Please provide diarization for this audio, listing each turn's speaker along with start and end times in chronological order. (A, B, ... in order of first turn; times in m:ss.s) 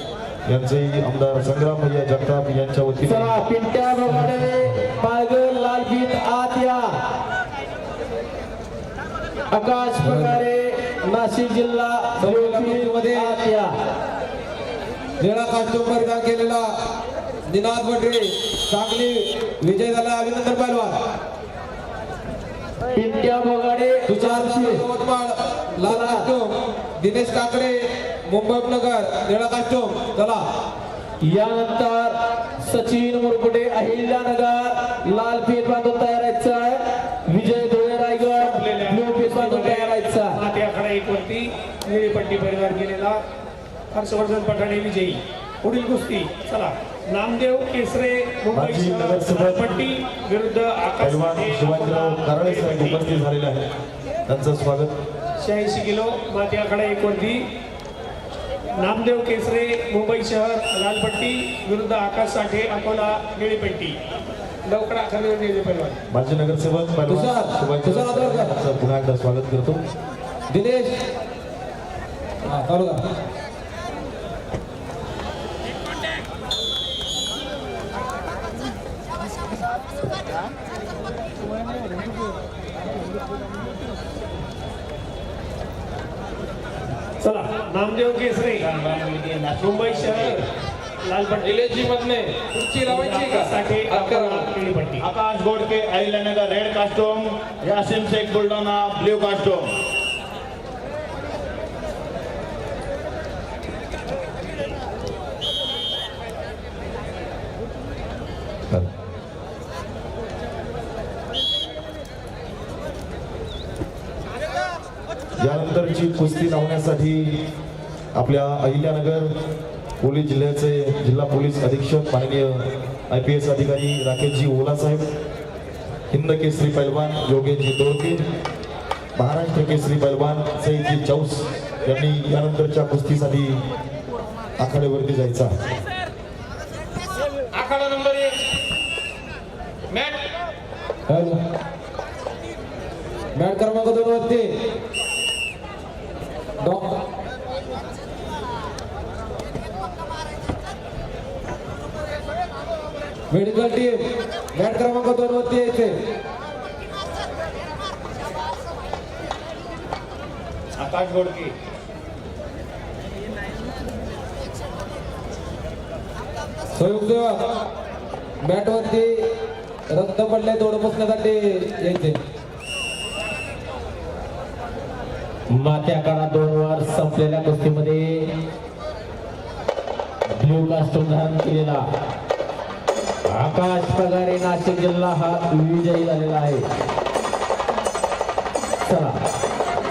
0:00.5-0:03.4 A
0:03.0-0:06.9 B
0:09.5-0:13.7 B
0:10.1-0:10.4 C
0:12.2-0:13.4 C
0:15.2-0:16.7 C
0:17.5-0:21.0 C
0:22.9-0:24.9 B
0:24.1-0:30.4 C
0:25.8-0:26.3 B
0:31.2-0:40.4 B
0:38.3-0:43.2 D
0:43.9-0:53.1 D
0:48.5-0:49.8 A
0:51.0-0:53.6 A
0:54.3-0:54.9 A
0:55.4-0:57.4 D
0:58.8-1:04.0 D
1:04.7-1:06.0 D
1:06.1-1:09.8 A
1:07.1-1:08.5 C
1:10.5-1:11.0 C
1:12.5-1:13.0 C
1:27.2-1:28.7 D
1:28.6-1:30.4 E
1:29.6-1:30.4 D
1:31.0-1:31.7 D
1:31.4-1:34.5 C
1:32.8-1:35.1 D
1:35.0-1:39.7 E
1:55.4-1:57.4 A
1:58.2-1:59.3 A
2:00.0-2:05.0 A
2:06.1-2:08.2 A
2:09.2-2:13.6 A
2:14.6-2:15.5 A
2:17.5-2:18.4 C
2:19.9-2:20.2 C
2:21.1-2:21.4 C
2:23.4-2:24.5 C
2:26.6-2:27.0 C
2:33.3-2:34.0 C
2:34.6-2:35.9 C
2:40.8-2:41.5 E
2:46.8-2:47.4 C
2:48.4-2:49.3 C
2:49.9-2:52.2 C
2:55.5-2:58.3 B
3:00.4-3:01.8 B
3:03.3-3:06.6 B
3:08.8-3:09.2 B